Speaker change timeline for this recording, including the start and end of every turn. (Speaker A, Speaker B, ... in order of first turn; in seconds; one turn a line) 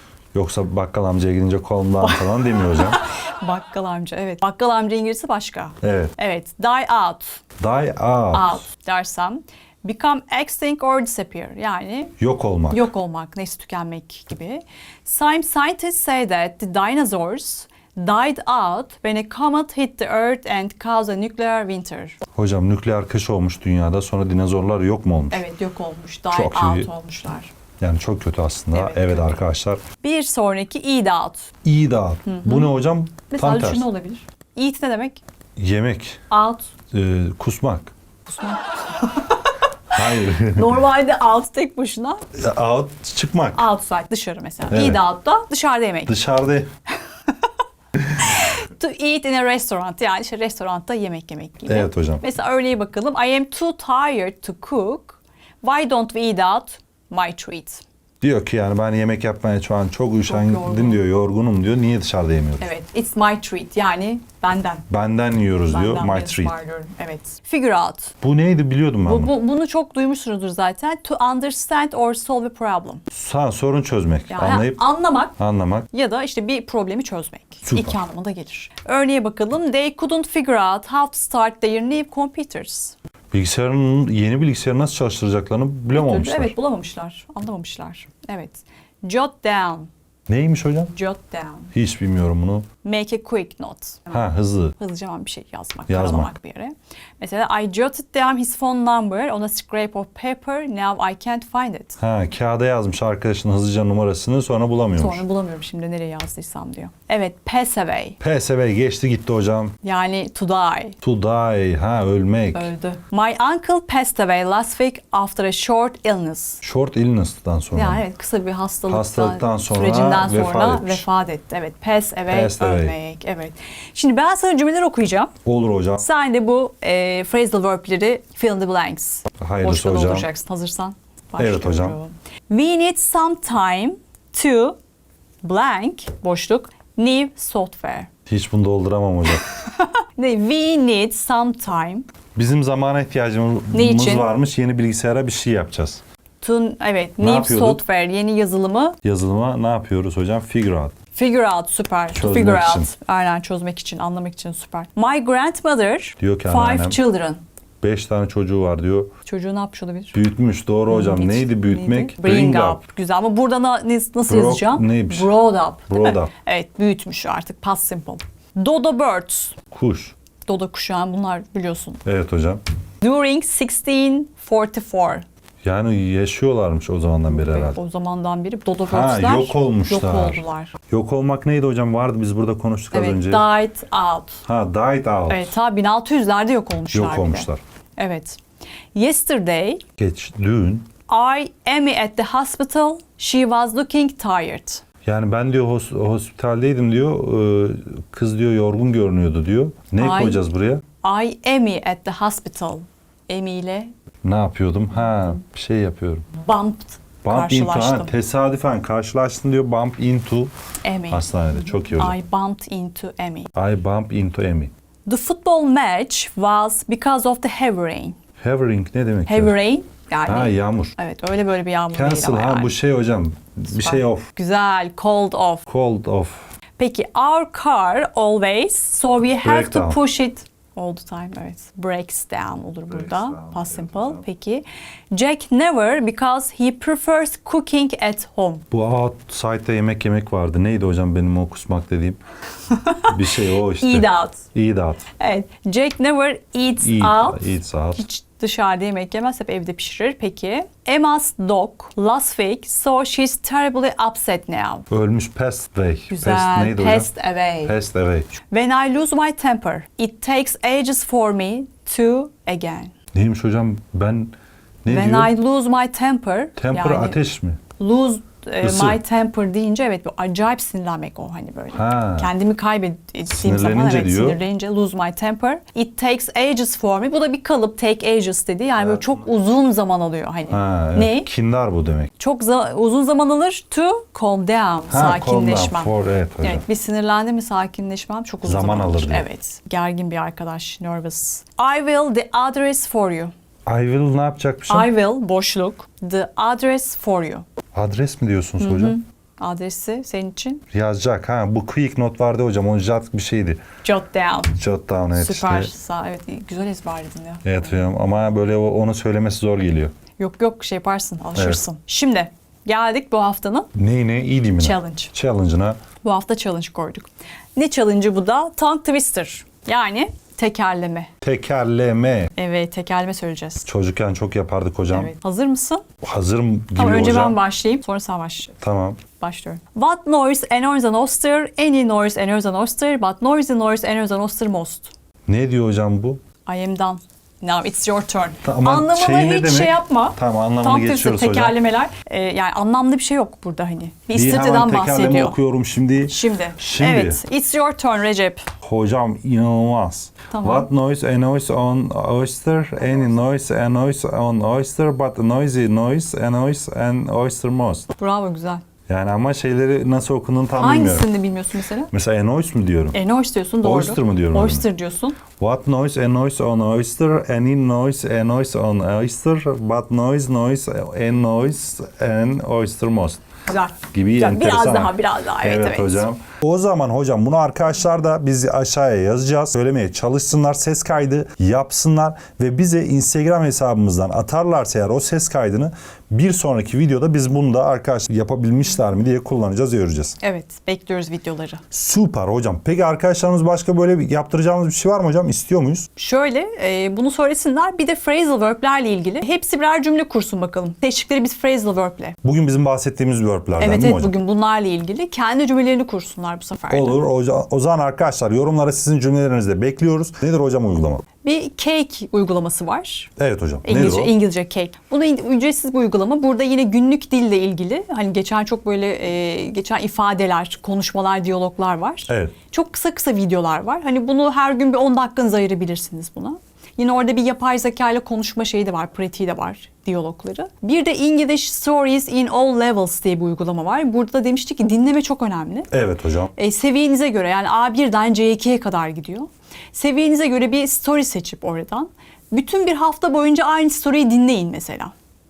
Speaker A: 0.3-3.0
Speaker B: 2.0-7.4
Speaker A: 5.8-6.1
Speaker A: 7.6-8.6
Speaker B: 8.3-12.1
Speaker A: 12.2-12.9
Speaker B: 12.7-22.2
Speaker A: 22.3-25.4
Speaker B: 25.3-27.5
Speaker A: 26.3-26.9
Speaker A: 27.8-29.8
Speaker B: 28.7-29.4
Speaker B: 30.0-31.5
Speaker A: 31.6-33.9
Speaker B: 32.2-32.7
Speaker B: 33.3-35.2
Speaker A: 35.5-36.2
Speaker B: 36.3-36.7
Speaker A: 36.9-37.9
Speaker B: 38.2-42.2
Speaker A: 39.9-40.8
Speaker A: 42.3-43.6
Speaker B: 43.5-46.1
Speaker A: 44.7-45.0
Speaker A: 46.1-46.7
Speaker B: 48.2-57.8
Speaker A: 51.6-52.2
Speaker A: 58.2-62.7
Speaker B: 60.2-61.0
Speaker B: 62.6-64.8
Speaker A: 64.9-66.5
Speaker B: 65.7-68.1
Speaker A: 68.2-69.3
Speaker B: 69.0-73.0
Speaker A: 73.1-74.8
Speaker B: 74.3-75.3
Speaker A: 75.4-75.9
Speaker B: 75.9-82.9
Speaker A: 77.6-78.0
Speaker A: 83.3-86.5
Speaker B: 85.9-89.9
Speaker A: 90.3-90.9
Speaker B: 90.9-91.7
Speaker A: 91.7-92.7
Speaker B: 92.8-94.2
Speaker A: 94.1-94.7
Speaker B: 94.8-102.0
Speaker A: 95.9-96.3
Speaker A: 102.0-105.2
Speaker B: 104.9-108.2
Speaker A: 108.2-109.7
Speaker B: 109.8-111.0
Speaker A: 111.0-112.7
Speaker B: 112.5-116.6
Speaker A: 116.6-118.0
Speaker B: 117.7-125.3
Speaker A: 118.9-121.0
Speaker A: 122.3-123.0
Speaker A: 125.4-126.0
Speaker B: 126.0-134.8
Speaker A: 129.4-130.3
Speaker A: 131.4-132.0
Speaker B: 135.4-138.1
Speaker A: 138.3-139.4
Speaker B: 139.3-142.1
Speaker A: 142.3-146.0
Speaker B: 143.7-144.3
Speaker B: 146.4-148.9
Speaker A: 147.2-147.8
Speaker A: 149.0-150.9
Speaker B: 151.1-157.4
Speaker A: 152.1-152.9
Speaker A: 156.2-157.0
Speaker A: 157.8-159.1
Speaker B: 159.2-160.2
Speaker A: 160.1-162.8
Speaker B: 160.9-169.5
Speaker A: 164.3-165.3
Speaker A: 165.9-166.3
Speaker A: 169.7-170.1
Speaker B: 170.4-172.0
Speaker A: 172.0-172.6
Speaker B: 173.0-175.2
Speaker A: 175.6-177.8
Speaker B: 177.3-180.7
Speaker A: 178.8-183.4
Speaker B: 182.9-184.4
Speaker A: 184.4-185.5
Speaker B: 185.3-188.4
Speaker A: 186.9-187.6
Speaker B: 188.9-189.8
Speaker A: 190.0-190.9
Speaker B: 191.1-194.8
Speaker A: 195.0-200.8
Speaker B: 200.0-200.4
Speaker B: 201.0-203.9
Speaker A: 204.2-206.2
Speaker B: 206.4-208.1
Speaker A: 207.2-210.5
Speaker B: 210.8-211.2
Speaker A: 211.1-212.1
Speaker B: 211.9-213.5
Speaker A: 213.5-214.7
Speaker B: 215.1-218.2
Speaker A: 218.4-219.6
Speaker B: 219.3-222.7
Speaker A: 220.2-220.9
Speaker A: 221.9-224.2
Speaker B: 223.7-225.6
Speaker A: 225.7-226.5
Speaker B: 226.8-238.6
Speaker A: 229.4-230.0
Speaker A: 232.9-234.2
Speaker A: 238.7-242.2
Speaker B: 242.7-243.1
Speaker A: 243.1-245.1
Speaker B: 243.8-244.4
Speaker B: 245.2-254.8
Speaker A: 246.8-248.0
Speaker A: 254.9-257.1
Speaker B: 256.1-257.7
Speaker A: 257.6-258.3
Speaker B: 258.5-262.9
Speaker A: 263.1-264.3
Speaker A: 264.8-265.3
Speaker B: 264.9-267.2
Speaker A: 266.6-267.6
Speaker B: 267.8-281.3
Speaker A: 268.6-269.0
Speaker A: 271.7-272.3
Speaker A: 273.3-274.4
Speaker A: 278.8-279.3
Speaker A: 280.5-282.1
Speaker B: 282.2-293.3
Speaker A: 284.9-286.6
Speaker A: 288.4-289.3
Speaker A: 293.7-294.9
Speaker B: 294.7-297.4
Speaker A: 297.7-299.0
Speaker B: 298.6-300.6
Speaker A: 300.7-303.6
Speaker B: 303.8-304.6
Speaker A: 304.6-305.7
Speaker B: 305.1-307.8
Speaker A: 307.4-309.9
Speaker B: 310.2-313.7
Speaker A: 311.3-311.6
Speaker A: 313.7-315.8
Speaker B: 314.6-315.1
Speaker B: 316.0-321.1
Speaker A: 321.2-322.3
Speaker B: 322.4-323.7
Speaker A: 323.6-325.1
Speaker B: 324.9-325.8
Speaker A: 326.0-327.4
Speaker B: 326.7-328.6
Speaker A: 328.6-329.0
Speaker B: 329.1-334.9
Speaker A: 335.3-336.2
Speaker B: 336.4-345.4
Speaker A: 338.4-341.6
Speaker A: 344.1-347.2
Speaker B: 346.1-348.5
Speaker A: 348.6-357.9
Speaker B: 350.3-350.7
Speaker B: 352.8-353.1
Speaker B: 358.0-358.6
Speaker A: 358.9-361.1
Speaker B: 360.6-361.9
Speaker A: 361.9-363.0
Speaker B: 362.9-365.2
Speaker A: 363.6-364.6
Speaker A: 365.4-373.2
Speaker B: 373.5-376.1
Speaker A: 373.9-390.2
Speaker B: 390.2-391.6
Speaker A: 391.7-395.9
Speaker B: 395.9-402.1
Speaker A: 402.2-404.2
Speaker B: 403.6-407.0
Speaker A: 406.7-411.0
Speaker B: 411.2-413.1
Speaker A: 413.2-414.1
Speaker B: 413.6-435.7
Speaker A: 422.1-422.3
Speaker A: 435.7-436.3
Speaker B: 436.4-444.9